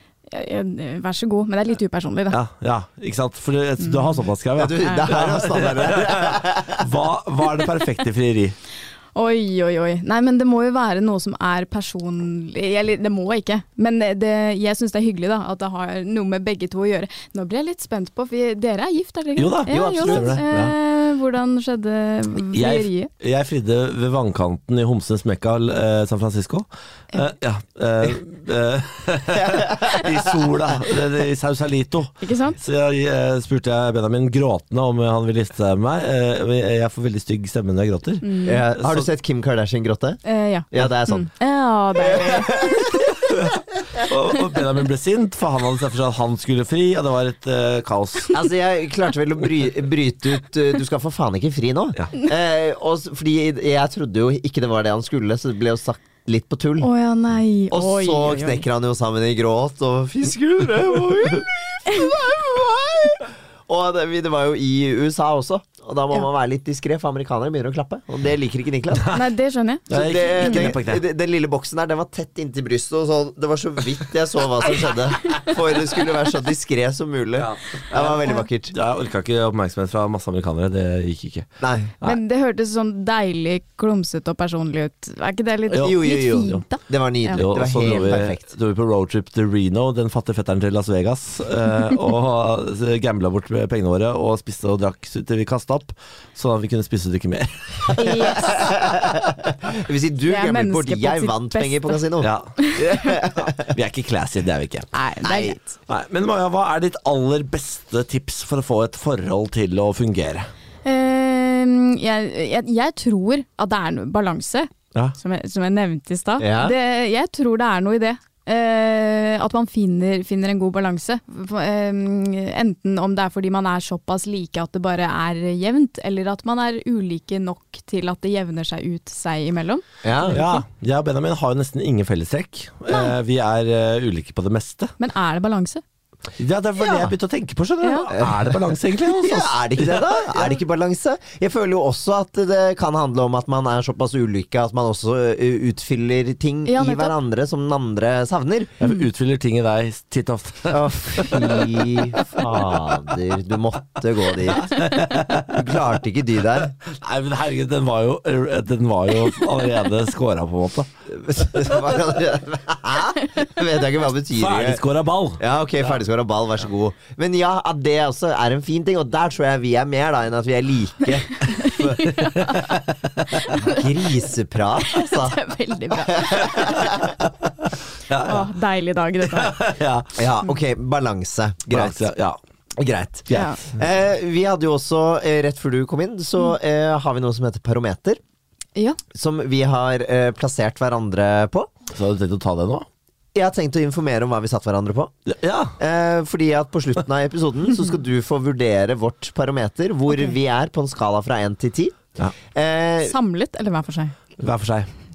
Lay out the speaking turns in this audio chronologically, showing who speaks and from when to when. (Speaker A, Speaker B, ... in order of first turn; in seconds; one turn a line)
Speaker A: 0.3-2.4
Speaker B: 2.3-8.6
Speaker A: 3.8-4.1
Speaker C: 4.6-6.8
Speaker A: 4.8-5.1
Speaker A: 9.1-23.1
Speaker B: 19.4-20.7
Speaker C: 19.7-20.4
Speaker B: 22.5-39.1
Speaker A: 32.2-32.6
Speaker A: 38.2-38.6
Speaker C: 38.4-40.2
Speaker A: 40.2-43.0
Speaker C: 40.7-41.3
Speaker C: 42.0-43.0
Speaker B: 43.2-48.4
Speaker C: 48.3-56.9
Speaker A: 56.8-58.6
Speaker C: 57.7-69.1
Speaker B: 69.0-69.2
Speaker A: 69.1-70.7
Speaker B: 69.9-71.0
Speaker C: 69.9-78.7
Speaker B: 77.4-81.5
Speaker C: 81.6-81.9
Speaker A: 82.0-88.1
Speaker B: 85.7-86.0
Speaker C: 85.8-88.4
Speaker B: 87.3-98.5
Speaker A: 98.0-98.7
Speaker C: 98.3-103.7
Speaker A: 100.3-102.0
Speaker B: 102.2-102.5
Speaker A: 102.6-103.1
Speaker B: 103.4-104.9
Speaker A: 104.9-105.7
Speaker C: 105.2-105.6
Speaker B: 105.9-110.5
Speaker A: 110.8-130.6
Speaker C: 116.4-116.7
Speaker C: 130.0-130.4
Speaker B: 130.3-134.9
Speaker A: 135.0-135.8
Speaker B: 136.4-140.6
Speaker A: 137.8-138.1
Speaker C: 138.1-138.5
Speaker C: 139.1-148.8
Speaker A: 146.7-147.1
Speaker B: 148.8-153.1
Speaker C: 150.7-156.7
Speaker B: 154.4-155.7
Speaker B: 156.8-160.9
Speaker C: 161.1-164.8
Speaker B: 164.3-165.9
Speaker C: 165.4-172.1
Speaker A: 171.4-172.7
Speaker B: 172.1-173.5
Speaker A: 173.3-174.2
Speaker C: 173.5-175.4
Speaker A: 174.8-177.0
Speaker C: 176.0-177.1
Speaker B: 176.6-177.0
Speaker B: 178.1-178.5
Speaker A: 178.1-179.6
Speaker B: 179.2-180.2
Speaker C: 180.2-182.1
Speaker B: 181.7-182.4
Speaker C: 182.8-188.2
Speaker B: 183.3-183.6
Speaker A: 183.3-183.6
Speaker C: 189.1-191.7
Speaker B: 191.9-192.9
Speaker C: 193.3-195.1
Speaker B: 195.2-195.7
Speaker C: 195.8-202.0
Speaker A: 200.1-200.3
Speaker C: 202.5-203.1
Speaker A: 203.1-204.1
Speaker B: 204.4-204.9